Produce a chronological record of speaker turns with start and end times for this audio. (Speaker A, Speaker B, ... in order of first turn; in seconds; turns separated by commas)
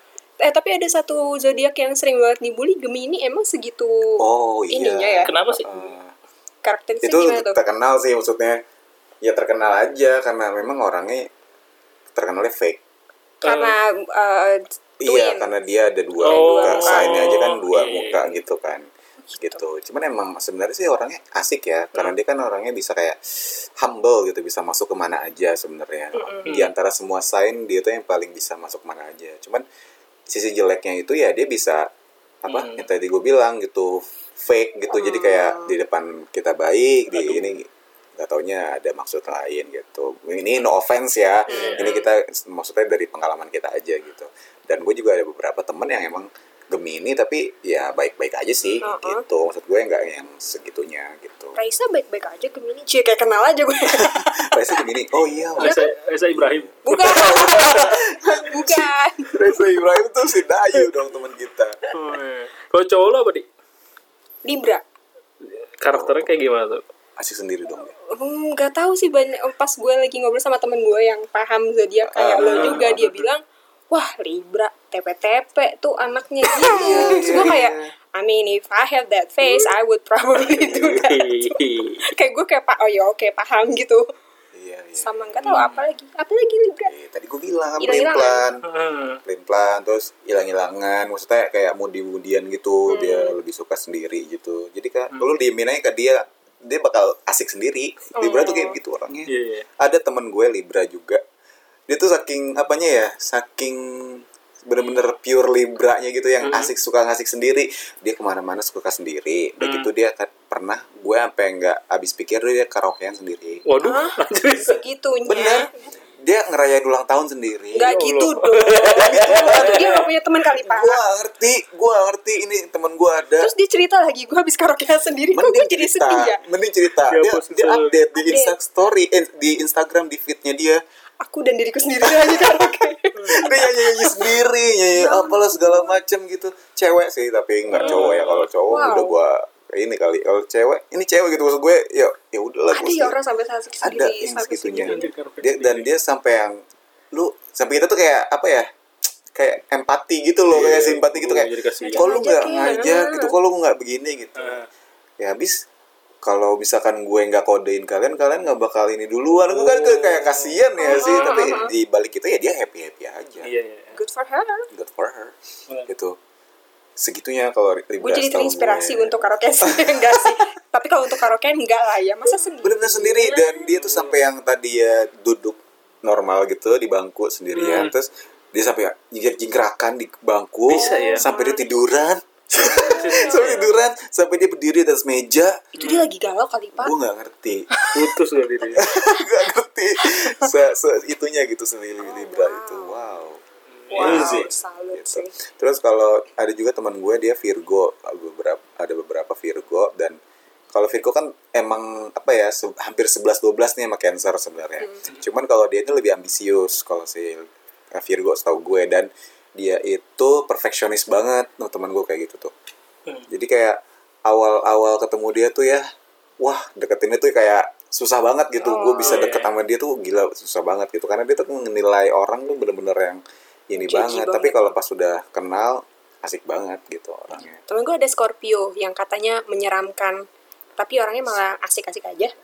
Speaker A: 0.4-5.3, Speaker B: 4.2-6.1, Speaker C: 5.2-5.7, Speaker A: 6.6-7.6, Speaker B: 7.0-8.6, Speaker B: 9.2-11.3, Speaker B: 12.1-12.8, Speaker A: 13.4-15.5, Speaker C: 13.4-13.8, Speaker B: 15.0-18.8, Speaker A: 16.2-17.5, Speaker C: 16.2-18.3, Speaker A: 19.3-19.6, Speaker B: 19.4-29.6, Speaker A: 26.1-26.5, Speaker C: 26.5-26.7, Speaker B: 30.3-31.9, Speaker B: 32.4-51.5, Speaker C: 32.5-32.9, Speaker A: 34.9-35.7, Speaker C: 37.1-37.5, Speaker A: 41.5-42.0, Speaker C: 41.5-42.0, Speaker A: 48.8-49.2, Speaker A: 51.5-54.5, Speaker B: 53.9-55.8, Speaker C: 55.6-58.0, Speaker A: 55.6-55.9, Speaker B: 56.3-61.8, Speaker A: 56.8-59.4, Speaker C: 61.9-63.5, Speaker A: 64.4-64.8, Speaker C: 65.5-66.8, Speaker B: 65.9-66.3, Speaker B: 67.2-67.9, Speaker A: 68.1-84.0, Speaker B: 72.0-73.1, Speaker C: 72.4-73.2, Speaker B: 76.4-77.9, Speaker B: 80.5-80.9, Speaker C: 80.8-82.0, Speaker B: 84.5-85.1, Speaker A: 85.0-86.9, Speaker C: 85.4-85.8, Speaker B: 86.9-88.6, Speaker A: 87.8-88.4, Speaker C: 88.7-89.2, Speaker B: 89.2-101.2, Speaker A: 92.9-93.3, Speaker A: 98.2-98.8, Speaker C: 99.3-99.7, Speaker B: 101.9-113.6, Speaker C: 106.4-106.7, Speaker C: 109.6-109.9, Speaker C: 113.7-114.8, Speaker A: 113.8-115.7, Speaker B: 115.2-115.7, Speaker B: 116.2-118.0, Speaker A: 117.7-121.0, Speaker C: 117.8-120.1, Speaker B: 119.0-119.9, Speaker B: 120.6-123.5, Speaker A: 123.4-126.4, Speaker B: 125.3-130.8, Speaker C: 127.1-127.9, Speaker A: 128.1-128.5, Speaker A: 131.2-134.3, Speaker B: 132.0-132.7, Speaker C: 133.2-133.5, Speaker B: 133.3-143.2, Speaker A: 134.9-136.0, Speaker C: 137.7-138.5, Speaker A: 137.8-138.1, Speaker A: 138.7-139.1, Speaker A: 142.7-145.1, Speaker B: 143.8-146.6, Speaker C: 144.8-145.9, Speaker B: 147.1-148.7, Speaker B: 149.3-154.6, Speaker C: 150.5-152.1, Speaker A: 151.8-153.3, Speaker C: 154.3-154.7, Speaker B: 155.2-155.6, Speaker B: 156.2-163.5, Speaker C: 159.4-161.4, Speaker A: 160.8-161.7, Speaker C: 163.4-163.9, Speaker A: 163.9-164.7, Speaker B: 164.7-165.3, Speaker B: 165.9-166.2, Speaker B: 167.0-170.4, Speaker A: 168.0-173.6, Speaker B: 172.6-185.6, Speaker C: 173.7-174.1, Speaker C: 177.5-177.9, Speaker C: 180.7-181.3, Speaker A: 180.8-181.6, Speaker A: 182.7-183.4, Speaker C: 182.7-183.7, Speaker A: 185.8-186.9, Speaker C: 185.8-186.1, Speaker B: 186.8-187.7, Speaker C: 187.9-188.8, Speaker B: 188.7-193.4, Speaker A: 192.0-193.1, Speaker C: 193.9-194.5, Speaker A: 193.9-195.3, Speaker B: 194.0-200.2, Speaker B: 200.7-212.5, Speaker B: 213.3-215.8, Speaker B: 216.4-227.6, Speaker A: 218.6-219.3, Speaker C: 219.0-219.5, Speaker A: 223.8-224.7, Speaker A: 227.7-230.2, Speaker A: 230.8-232.3